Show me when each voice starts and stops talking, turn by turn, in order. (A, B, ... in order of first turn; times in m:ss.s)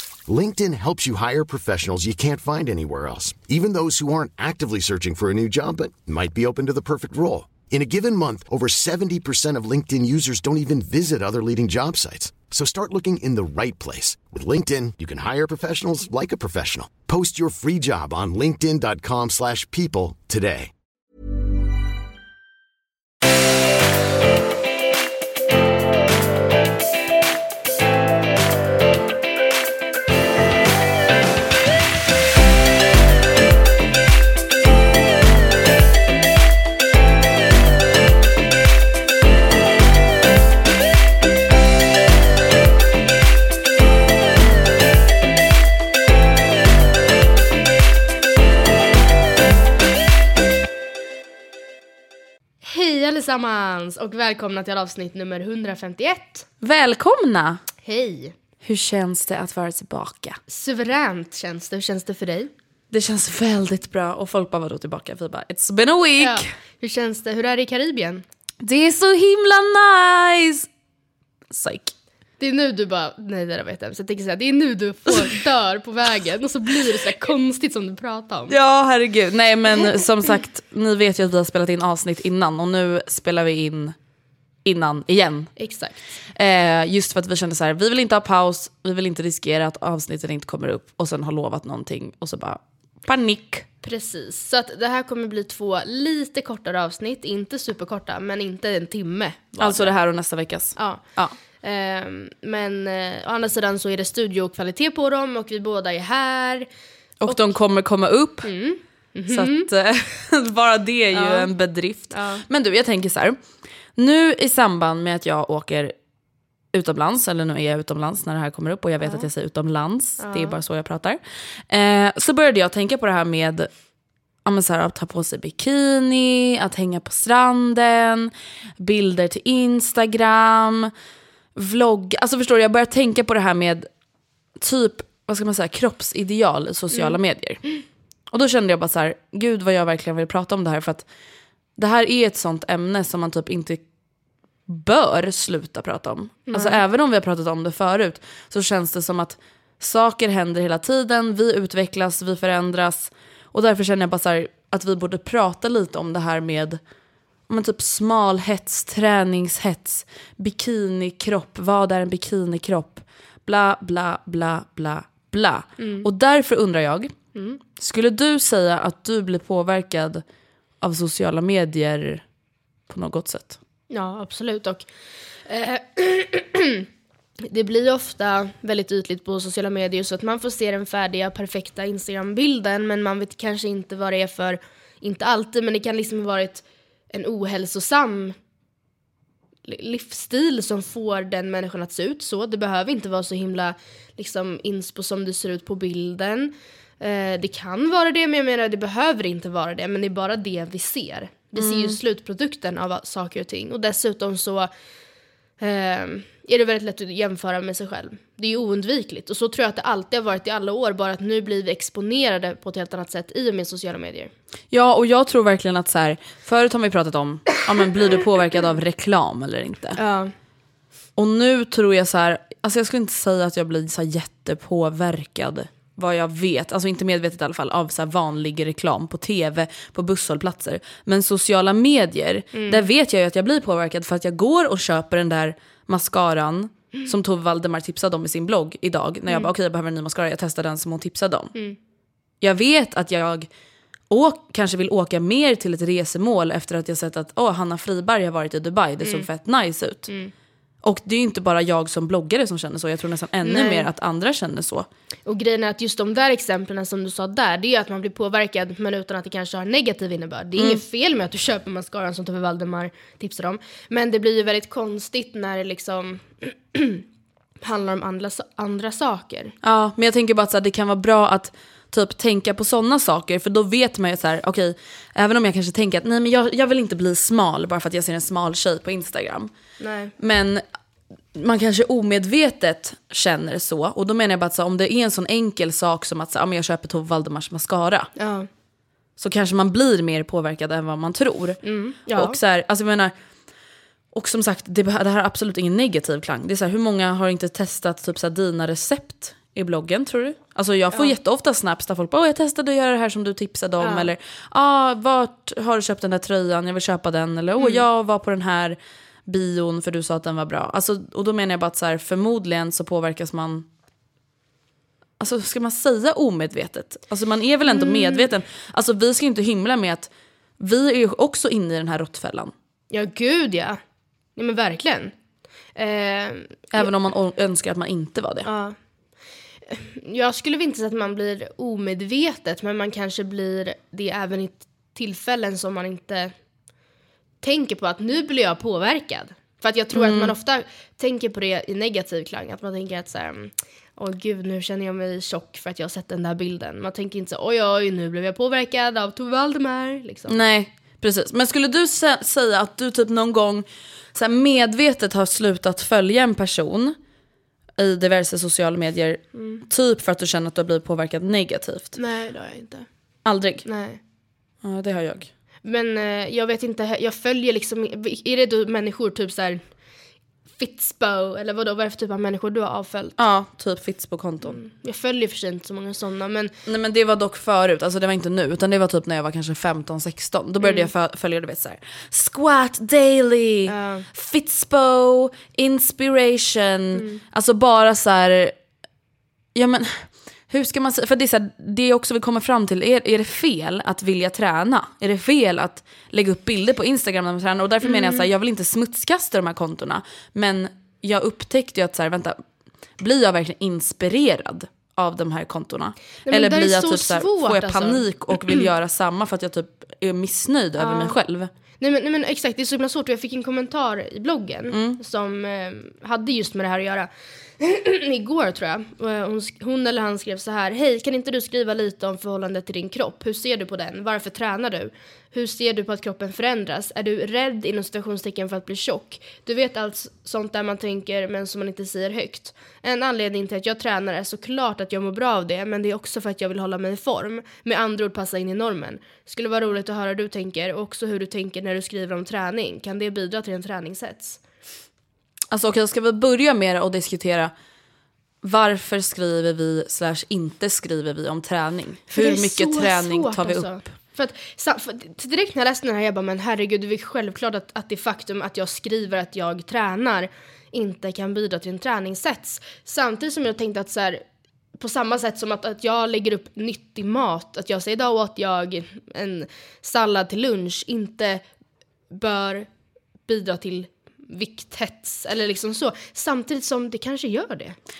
0:00.3-0:20.7 A
0:52.6-0:56.5 B
0:56.6-0:57.6 C
0:57.8-0:58.4 B
0:58.6-1:00.4 C
1:00.5-1:02.5 B
1:02.9-1:06.5 C
1:06.2-1:08.2 B
1:08.6-1:10.7 C
1:11.5-1:11.9 C
1:12.4-1:18.5 B
1:18.5-1:24.0 C
1:24.6-1:25.5 C
1:25.6-1:26.0 B
1:26.4-1:33.7 C
1:33.8-1:39.9 B
1:39.6-1:41.4 C
1:40.8-1:41.0 B
1:41.6-1:46.7 B
1:47.2-1:48.5 C
1:47.3-1:47.5 B
1:48.4-1:49.7 B
1:49.3-1:53.4 C
1:51.1-1:51.5 B
1:52.1-1:52.4 B
1:54.0-1:55.9 C
1:56.7-2:03.7 C
1:59.0-1:59.3 B
2:00.2-2:00.6 B
2:04.4-2:10.9 C
2:11.6-2:13.9 C
2:14.6-2:17.6 C
2:16.9-2:17.2 B
2:18.3-2:21.0 C
2:21.8-2:23.8 C
2:24.7-2:36.8 C
2:26.5-2:26.8 B
2:37.5-2:47.1 C
2:45.8-2:46.1 B
2:47.4-2:47.6 B
2:47.8-2:50.2 C
2:50.8-2:52.2 C
2:52.9-2:53.6 C
2:53.9-2:54.9 B
2:55.5-2:56.9 B
2:57.4-3:08.4 B
3:09.6-3:24.7 B
3:21.6-3:22.0 C
3:25.6-3:34.3 B
3:34.7-3:40.0 C
3:40.0-3:40.3 B
3:41.2-4:01.5 C
3:52.5-3:52.8 B
4:02.4-4:03.5 C
4:04.1-4:10.1 C
4:10.8-4:14.9 C
4:13.4-4:13.9 B
4:15.3-4:27.0 B
4:27.6-4:29.6 B
4:29.6-4:39.5 C
4:39.8-4:40.1 B
4:40.2-4:40.6 C
4:41.4-4:48.1 C
4:48.2-4:48.5 B
4:49.2-4:53.1 C
4:51.6-4:52.4 B
4:54.1-5:13.7 C
5:03.8-5:04.1 B
5:07.6-5:07.8 B
5:15.2-5:22.5 C
5:17.7-5:18.3 B
5:22.9-5:23.8 B
5:24.4-5:25.1 B
5:25.8-5:26.9 B
5:26.7-5:28.5 C
5:28.4-5:28.8 B
5:29.7-5:36.3 B
5:37.4-5:50.4 B
5:39.9-5:40.3 C
5:50.3-5:57.0 C
5:57.8-6:02.0 C
5:59.4-5:59.6 B
6:02.0-6:02.9 B
6:03.2-6:03.7 C
6:03.6-6:04.0 B
6:04.6-6:05.3 C
6:05.6-6:09.7 B
6:10.6-6:13.2 B
6:13.2-6:14.6 C
6:14.4-6:16.5 B
6:16.7-6:28.6 C
6:20.6-6:20.9 B
6:23.7-6:24.1 B
6:27.0-6:27.2 B
6:29.6-6:42.4 C
6:37.8-6:38.3 B
6:43.0-6:51.5 C
6:46.3-6:48.6 B
6:50.8-6:51.2 B
6:51.8-6:57.1 B
6:54.7-6:55.0 C
6:57.6-7:24.4 B
7:25.5-7:27.5 C
7:28.4-7:33.9 C
7:32.1-7:44.2 B
7:44.8-7:51.4 B
7:52.1-7:52.7 B
7:53.3-7:57.8 B